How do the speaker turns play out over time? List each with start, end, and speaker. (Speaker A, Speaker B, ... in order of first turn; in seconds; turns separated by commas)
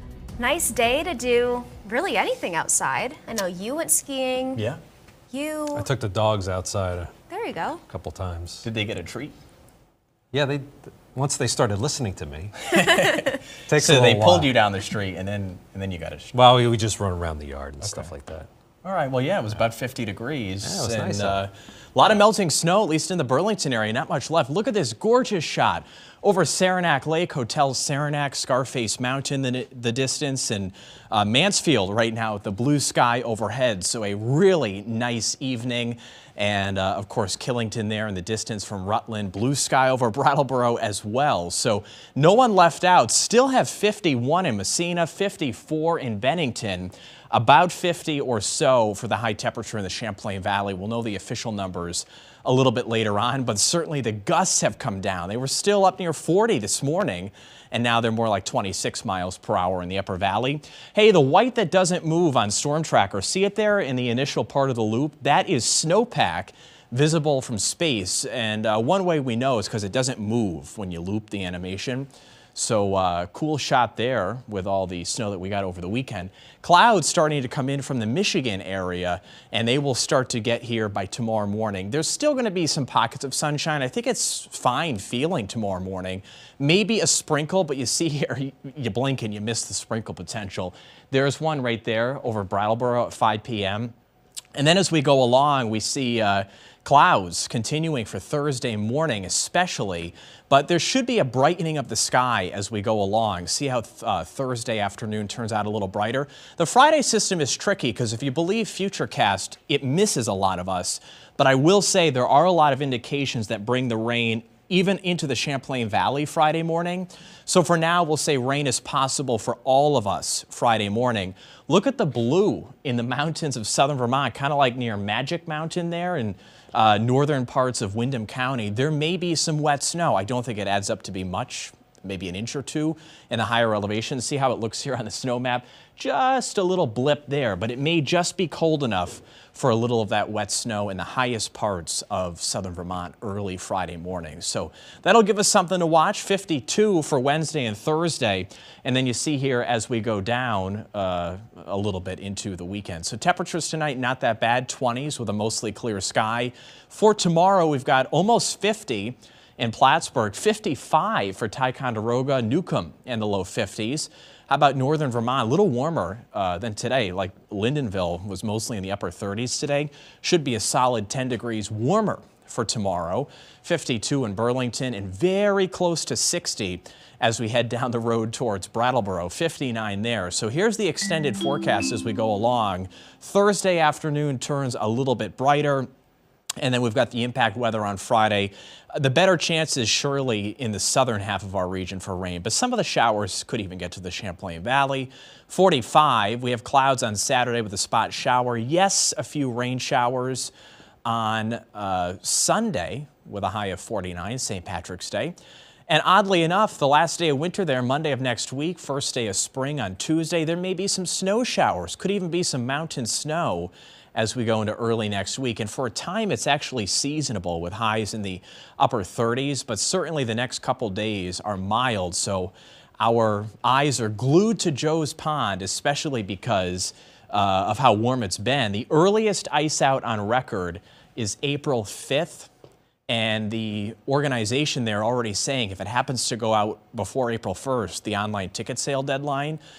Speaker A: 0.4-4.6, Speaker A: 5.3-5.9, Speaker B: 5.7-7.1, Speaker A: 7.3-7.8, Speaker B: 7.9-8.7, Speaker C: 8.6-9.3, Speaker B: 10.3-12.9, Speaker C: 12.7-16.4, Speaker B: 13.7-14.5, Speaker B: 16.3-18.5, Speaker C: 17.8-18.1, Speaker C: 18.8-93.9, Speaker B: 20.6-21.4, Speaker C: 94.5-185.9, Speaker C: 186.6-200.5, Speaker C: 201.0-205.3, Speaker C: 205.9-232.5, Speaker C: 233.1-239.6